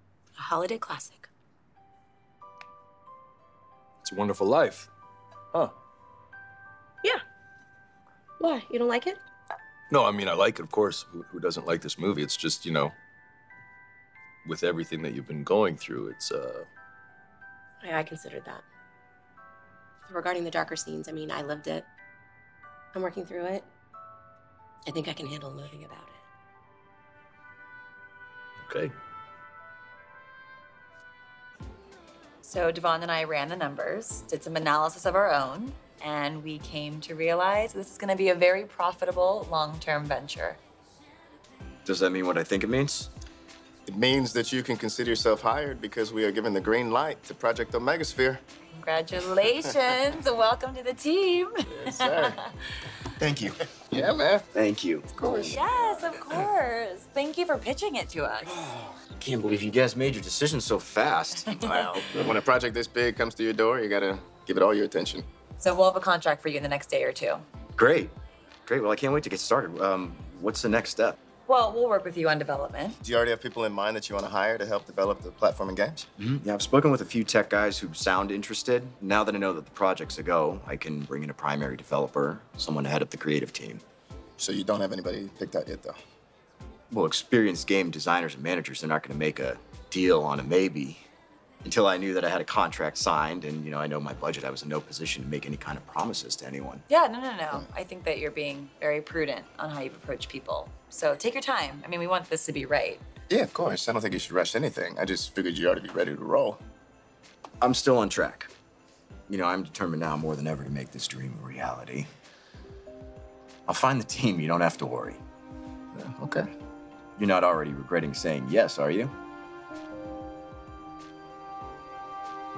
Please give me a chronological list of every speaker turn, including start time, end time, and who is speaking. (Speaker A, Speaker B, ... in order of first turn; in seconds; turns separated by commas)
Speaker A: 0.4-1.3, Speaker B: 4.0-4.9, Speaker A: 8.4-9.2, Speaker B: 9.9-13.0, Speaker B: 14.4-16.7, Speaker A: 17.8-18.6, Speaker A: 20.1-21.9, Speaker A: 22.9-23.7, Speaker A: 24.9-26.2, Speaker B: 28.6-28.9, Speaker C: 32.4-40.6, Speaker D: 41.9-43.1, Speaker E: 43.9-48.4, Speaker C: 48.7-52.2, Speaker E: 51.8-52.4, Speaker D: 53.2-53.6, Speaker E: 53.9-54.5, Speaker D: 54.5-55.6, Speaker E: 55.2-55.6, Speaker C: 55.4-58.7, Speaker D: 59.2-62.3, Speaker E: 62.1-65.3, Speaker C: 65.6-67.4, Speaker D: 67.8-68.1, Speaker D: 68.7-71.2, Speaker C: 71.5-73.0, Speaker E: 73.0-76.1, Speaker D: 76.2-83.8, Speaker E: 84.4-86.0, Speaker D: 86.9-91.0, Speaker D: 91.6-96.8, Speaker C: 96.9-103.0, Speaker E: 103.3-106.6, Speaker D: 107.6-108.5, Speaker D: 109.3-112.1, Speaker D: 113.7-115.2, Speaker E: 116.0-116.5, Speaker D: 117.2-119.1